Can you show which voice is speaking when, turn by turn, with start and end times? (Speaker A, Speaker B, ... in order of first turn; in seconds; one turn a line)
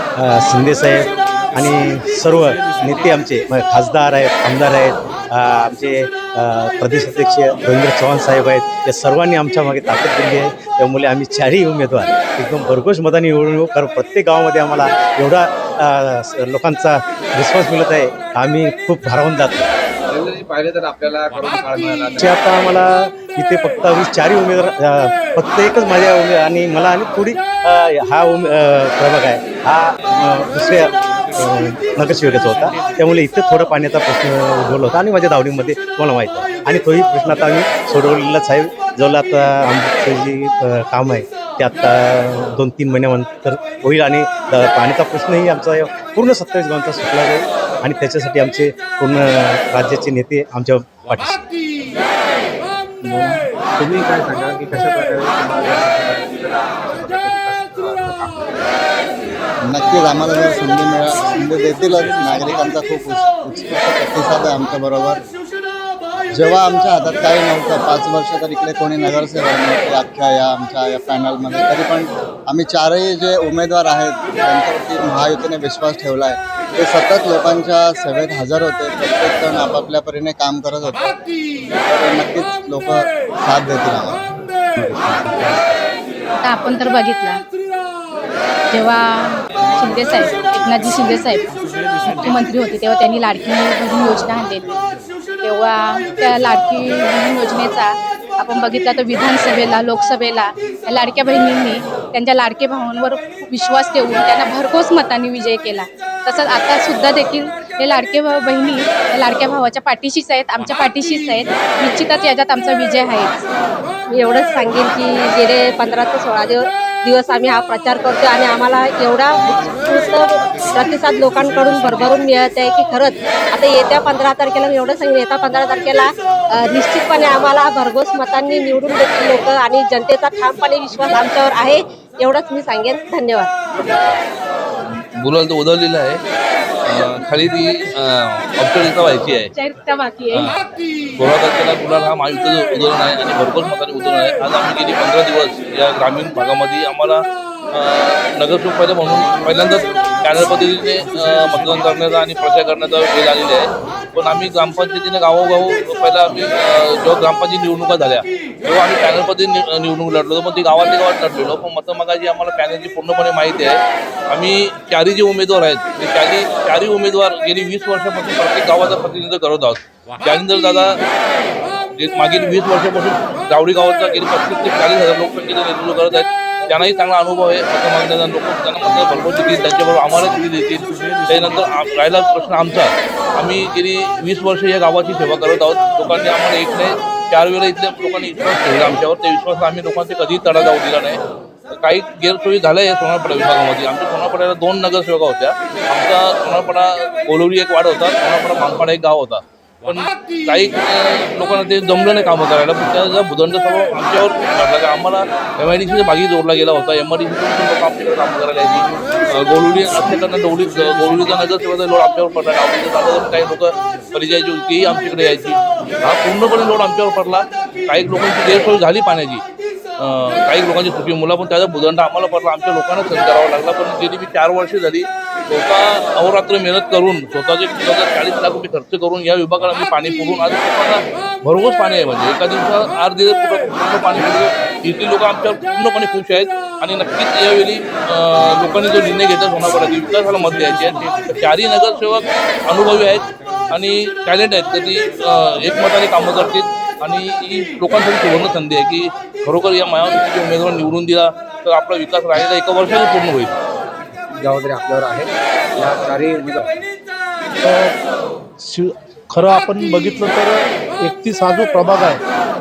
Speaker A: 0.2-19.7
Speaker B: 20.1-22.3
Speaker A: 22.2-51.5
Speaker B: 53.0-58.6
Speaker C: 59.6-65.2
Speaker C: 66.3-81.2
Speaker C: 81.8-84.3
Speaker B: 84.8-85.8
Speaker D: 86.4-87.4
Speaker D: 88.7-91.5
Speaker D: 92.0-94.8
Speaker D: 95.4-113.3
Speaker E: 114.1-133.5
Speaker F: 133.8-134.2
Speaker F: 134.8-136.2
Speaker F: 136.8-139.5
Speaker D: 139.5-140.5
Speaker F: 140.3-140.6
Speaker F: 141.2-147.2
Speaker F: 147.7-163.8
Speaker F: 164.3-171.0
Speaker F: 172.0-191.2
Speaker F: 191.8-219.4
Speaker F: 220.0-253.6
Speaker B: 254.3-256.8
Speaker G: 257.6-258.0
Speaker G: 258.6-262.2